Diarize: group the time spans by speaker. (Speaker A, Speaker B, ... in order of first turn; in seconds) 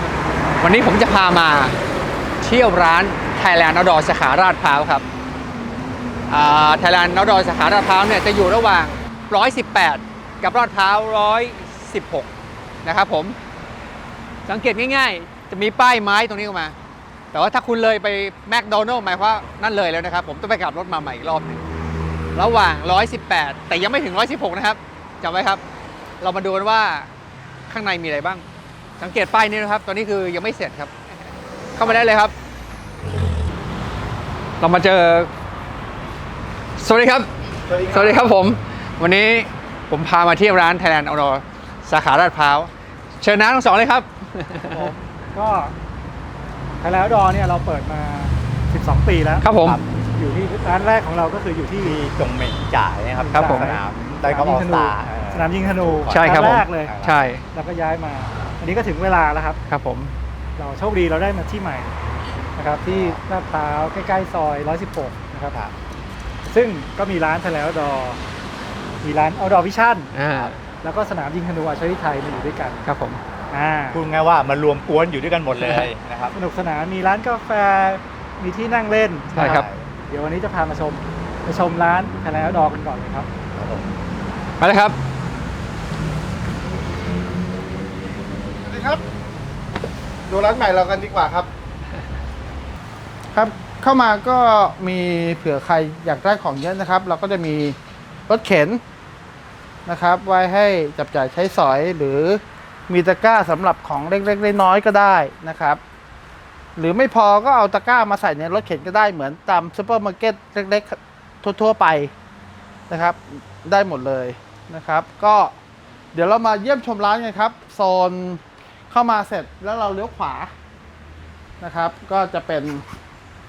Speaker A: 0.6-1.7, 2.4-5.0, 6.3-12.2, 12.8-13.3, 14.5-16.7, 17.3-21.6, 22.3-25.6, 26.2-27.1, 27.7-28.4, 29.0-30.9, 31.8-32.3, 34.6-35.3, 36.8-37.3, 37.9-42.7, 43.2-44.6, 49.4-49.7, 56.2-56.6, 57.1-57.4, 59.7-60.0, 84.6-84.9
Speaker B: 44.7-45.7, 46.8-49.6, 50.1-52.0, 53.2-59.6, 60.6-61.9, 62.5-65.6, 66.5-68.2, 69.0-72.9, 73.5-74.0, 76.3-83.3
Speaker C: 49.5-49.9, 51.8-57.3, 62.9-63.2, 70.2-70.5, 73.9-76.4, 79.3-79.9, 83.5-83.9
Speaker D: 88.6-89.0, 90.3-91.5, 93.3-97.8, 98.3-98.8, 99.8-105.8, 106.8-112.1, 112.9-115.5, 116.1-120.5, 121.6-122.8